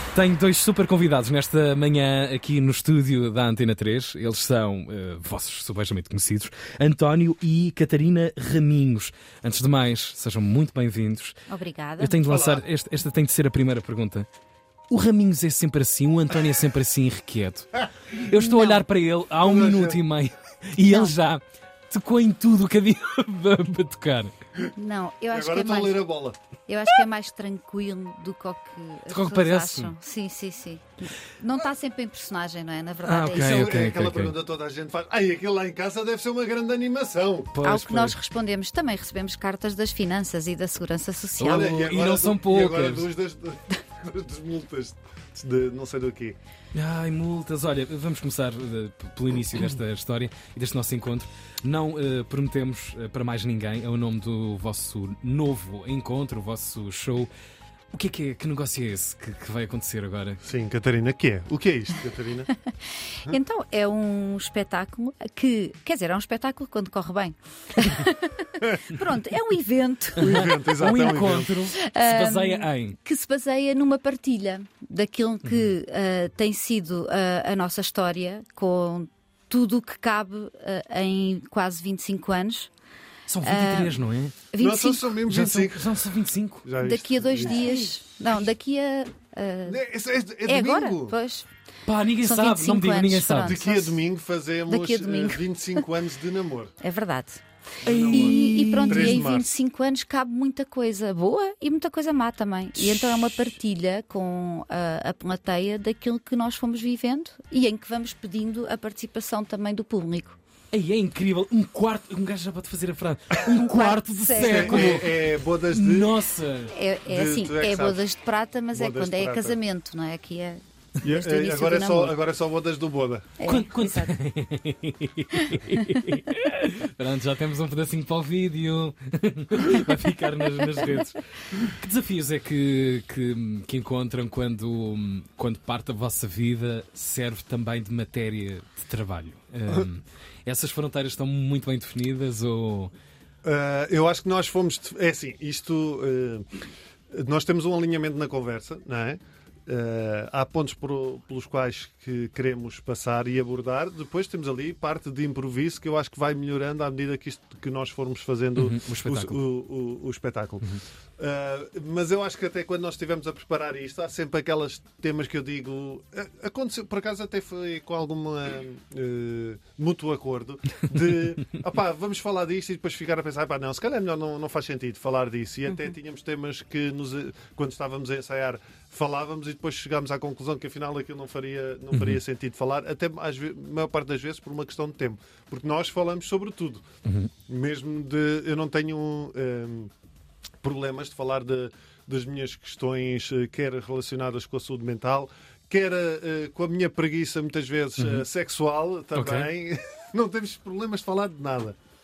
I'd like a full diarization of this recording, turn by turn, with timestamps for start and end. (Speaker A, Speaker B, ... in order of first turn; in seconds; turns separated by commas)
Speaker A: 0.1-11.4, Speaker B: 11.5-12.2, Speaker A: 12.0-14.3, Speaker C: 12.3-12.7, Speaker A: 14.9-24.3, Speaker B: 18.2-18.9, Speaker C: 19.4-20.0, Speaker B: 20.9-21.1, Speaker B: 24.8-26.1, Speaker C: 25.3-26.4, Speaker B: 26.7-33.7, Speaker A: 29.1-29.9, Speaker A: 33.0-34.4, Speaker C: 33.3-37.5, Speaker A: 37.5-38.2, Speaker B: 37.6-41.9, Speaker A: 41.4-43.1, Speaker C: 41.4-46.4, Speaker A: 46.7-57.3, Speaker A: 57.9-60.4, Speaker C: 60.4-62.5, Speaker B: 62.7-70.5, Speaker A: 70.2-73.0, Speaker C: 70.2-71.6, Speaker B: 71.7-82.7, Speaker A: 75.5-75.8, Speaker A: 83.3-84.4, Speaker B: 83.4-84.0, Speaker B: 84.5-85.1, Speaker C: 84.6-86.0, Speaker A: 85.3-86.7, Speaker C: 86.6-87.8, Speaker B: 86.8-89.8, Speaker A: 87.4-87.9, Speaker C: 89.7-91.2, Speaker B: 90.4-91.5, Speaker A: 91.9-93.6, Speaker B: 92.2-94.0, Speaker C: 93.4-96.7, Speaker B: 94.7-95.8, Speaker B: 96.8-97.4, Speaker A: 97.8-99.2, Speaker C: 97.8-99.5, Speaker B: 98.1-110.4, Speaker A: 110.7-116.7, Speaker B: 113.5-115.0, Speaker C: 114.4-116.1, Speaker B: 116.7-122.2, Speaker C: 117.1-118.0, Speaker C: 118.7-119.6, Speaker C: 121.0-123.4, Speaker B: 123.4-124.1, Speaker A: 123.5-142.9, Speaker B: 125.3-126.1, Speaker C: 143.4-146.6, Speaker C: 147.1-186.8, Speaker A: 158.6-159.4, Speaker A: 181.9-182.2, Speaker A: 187.1-187.3, Speaker C: 187.5-189.9, Speaker C: 190.6-201.8, Speaker A: 198.0-198.2, Speaker A: 199.2-199.5